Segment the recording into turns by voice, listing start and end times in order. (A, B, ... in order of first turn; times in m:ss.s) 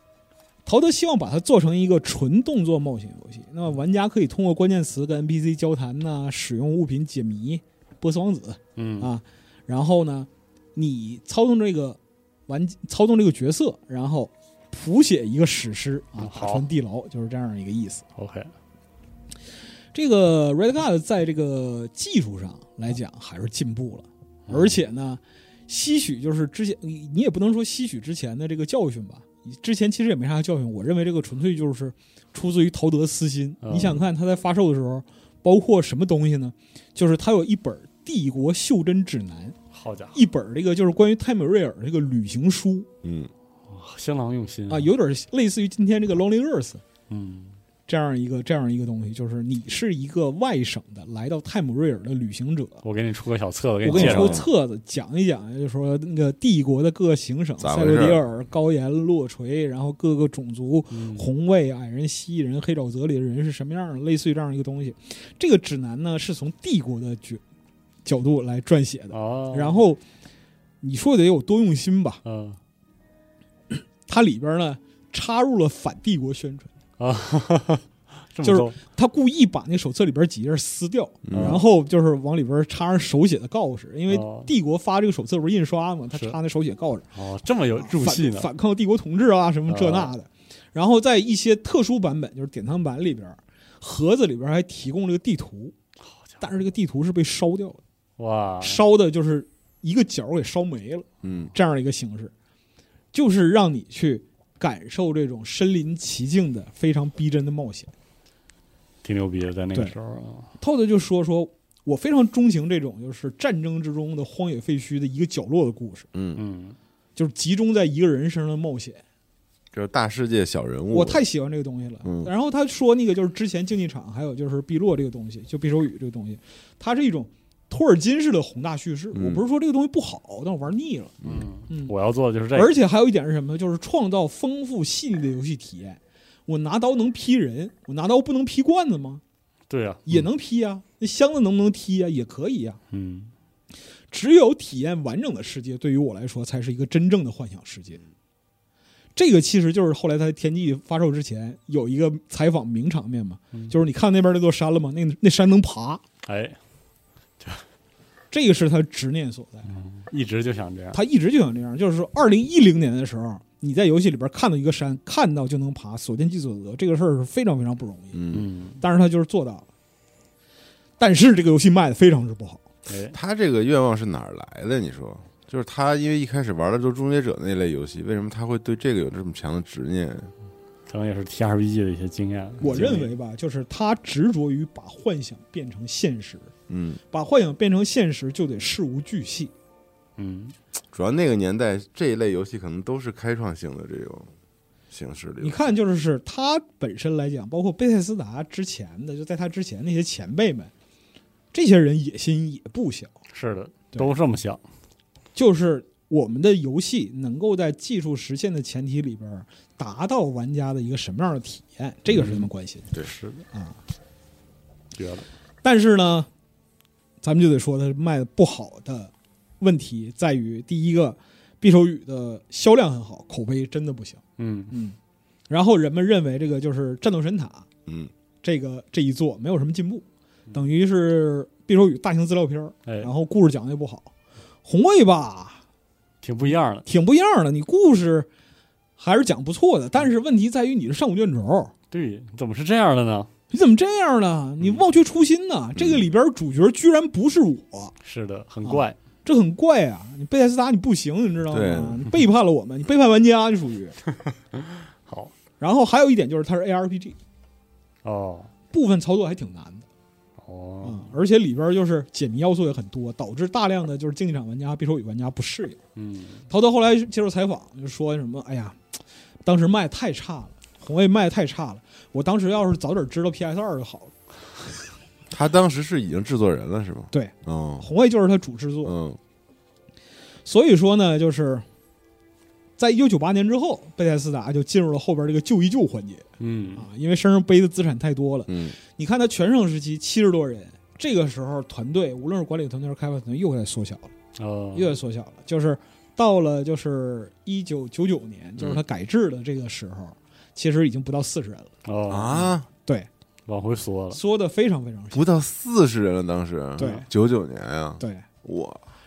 0:00.7-0:18.0 A
0:08.8-0:09.1 B
0:16.2-0:16.7 B
0:18.2-0:18.5 B
0:19.9-0:39.6 A
0:24.5-0:24.8 B
0:33.6-0:34.0 B
0:39.7-0:40.2 B
0:40.1-0:42.9 A
0:43.0-0:43.3 C
0:43.7-0:44.9 B
0:44.7-0:46.8 A
0:47.1-0:47.6 B
0:47.9-0:52.8 A
0:52.8-0:54.4 B
0:53.8-1:07.4 A
0:53.9-0:54.5 C
0:57.6-0:58.2 C
1:00.9-1:01.2 B
1:08.0-1:10.0 A
1:09.1-1:09.8 B
1:10.8-1:12.2 A
1:12.2-1:12.6 B
1:13.7-1:16.7 A
1:17.0-1:18.8 B
1:18.4-1:27.1 A
1:21.2-1:21.6 C
1:21.3-1:21.6 B
1:24.1-1:24.5 B
1:27.1-1:28.5 B
1:27.8-1:35.8 A
1:29.7-1:30.1 B
1:36.0-1:36.4 B
1:36.4-1:37.8 A
1:38.2-1:38.8 B
1:38.6-1:42.3 A
1:41.2-1:41.5 C
1:43.1-1:47.9 A
1:49.0-1:50.5 B
1:50.6-1:56.1 A
1:56.1-1:56.4 C
1:56.4-1:56.8 B
1:57.2-1:59.0 A
1:59.7-2:01.2 C
2:00.9-2:11.2 A
2:02.0-2:02.3 C
2:09.1-2:09.4 C
2:11.2-2:11.5 C
2:11.2-2:12.7 B
2:12.5-2:19.2 A
2:19.7-2:20.2 B
2:20.1-2:22.8 A
2:22.9-2:23.3 B
2:24.1-2:28.0 A
2:29.2-2:36.0 A
2:36.3-2:36.6 B
2:38.3-2:39.7 A
2:39.7-2:41.0 B
2:40.9-2:48.2 A
2:48.1-2:48.5 C
2:48.3-2:48.8 B
2:48.8-2:49.7 A
2:51.0-2:52.6 A
2:52.9-2:53.2 B
2:53.1-3:00.3 C
3:00.9-3:03.1 B
3:02.6-3:06.5 A
3:06.7-3:07.0 C
3:07.1-3:09.5 A
3:10.2-3:10.6 B
3:10.9-3:14.3 C
3:14.9-3:15.6 C
3:15.4-3:20.7 A
3:21.5-3:23.1 A
3:23.3-3:24.6 B
3:25.4-3:32.9 A
3:32.1-3:33.4 B
3:33.5-3:33.8 A
3:35.0-3:35.3 B
3:35.6-3:36.3 A
3:37.2-3:45.0 A
3:44.4-3:44.7 B
3:45.5-3:47.7 A
3:47.9-3:48.1 C
3:48.4-3:54.1 A
3:52.9-3:53.1 B
3:54.6-3:55.6 A
3:56.2-3:56.9 B
3:56.8-3:58.3 A
3:59.0-4:01.7 A
4:01.9-4:03.3 B
4:03.5-4:08.0 A
4:05.8-4:06.0 C
4:08.0-4:09.0 B
4:08.6-4:14.0 A
4:11.5-4:12.1 C
4:15.0-4:15.3 B
4:15.6-4:17.2 A
4:18.0-4:18.5 B
4:18.7-4:19.9 A
4:20.4-4:21.1 B
4:20.8-4:25.8 A
4:26.0-4:26.5 B
4:26.5-4:34.1 A
4:35.3-4:37.9 C
4:37.1-4:39.0 A
4:38.8-4:39.2 C
4:40.4-4:41.6 A
4:42.8-4:54.1 A
4:46.4-4:46.9 B
4:48.5-4:48.8 C
4:54.4-4:55.0 B
4:54.7-5:01.7 A
5:01.8-5:02.5 B
5:02.1-5:02.7 C
5:03.5-5:04.2 B
5:04.1-5:05.2 A
5:05.1-5:08.8 C
5:06.8-5:07.1 A
5:08.0-5:08.2 A